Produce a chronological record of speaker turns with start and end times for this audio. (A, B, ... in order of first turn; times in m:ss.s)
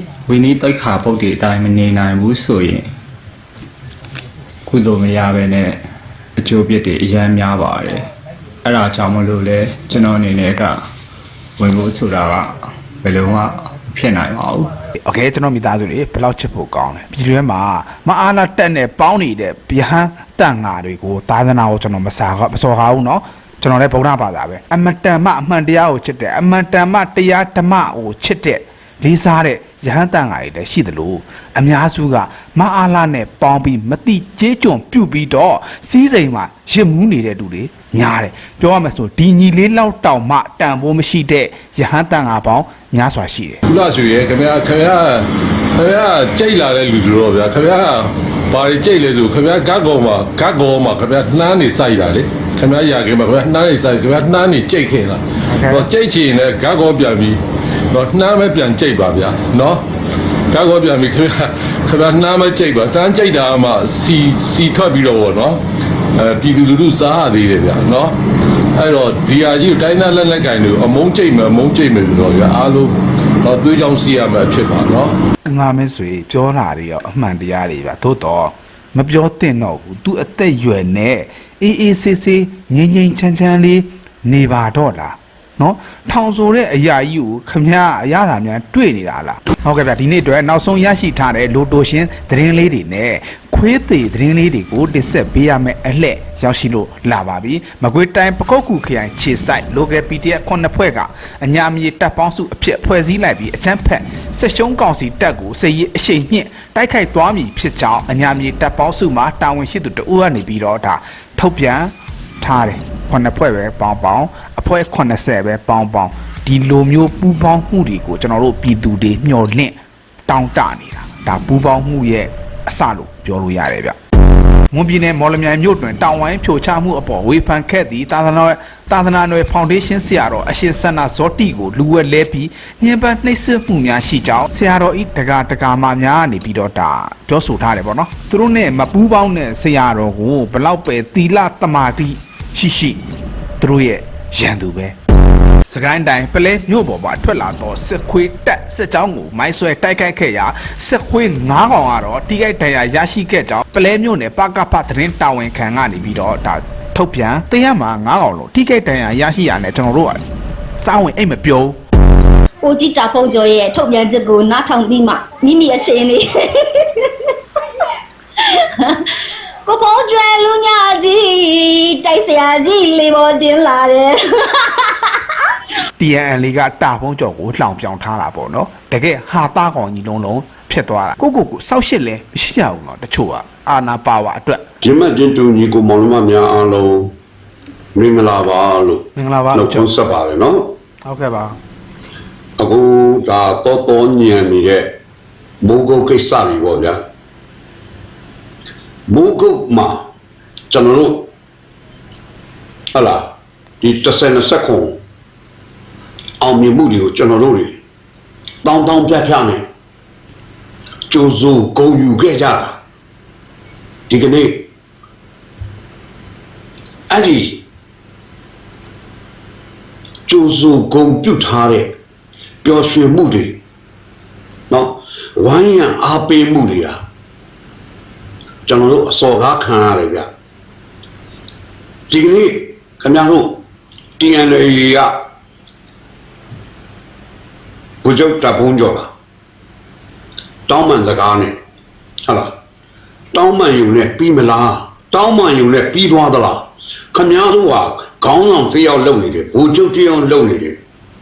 0:00.3-0:02.9 A
0:04.7-0:05.8 A
0:06.4-0:08.1 A
0:08.6-0:10.7 A
0:11.6-0:14.7 A
0:15.0-0:43.6 B
0:43.7-0:57.4 C
0:55.5-0:55.9 B
0:57.9-0:59.8 C
1:00.5-1:05.6 C
1:06.1-1:08.2 C
1:08.8-1:15.2 C
1:15.4-1:59.8 B
2:00.3-2:04.0 B
2:04.7-2:23.0 B
2:23.6-2:25.0 B
2:25.6-2:40.2 B
2:40.8-2:41.8 B
2:42.6-2:47.8 D
2:48.4-2:49.1 D
2:49.6-2:55.3 D
2:56.0-3:04.6 B
3:04.8-3:07.1 E
3:07.9-3:10.7 E
3:09.2-3:09.9 B
3:11.0-3:11.6 B
3:12.6-3:14.9 E
3:15.6-3:17.0 E
3:19.1-3:20.0 E
3:20.7-3:21.3 E
3:22.9-3:23.3 E
3:23.8-3:25.0 E
3:26.4-3:27.8 E
3:28.6-3:29.6 E
3:31.1-3:32.8 E
3:34.1-3:34.6 E
3:37.1-3:37.6 E
3:40.3-3:41.9 E
3:42.6-3:43.6 E
3:44.7-3:47.0 E
3:48.7-3:50.3 E
3:52.1-3:53.6 E
3:54.2-3:55.1 E
3:58.0-3:59.1 E
4:00.7-4:01.6 E
4:02.2-4:02.5 E
4:03.3-4:10.8 E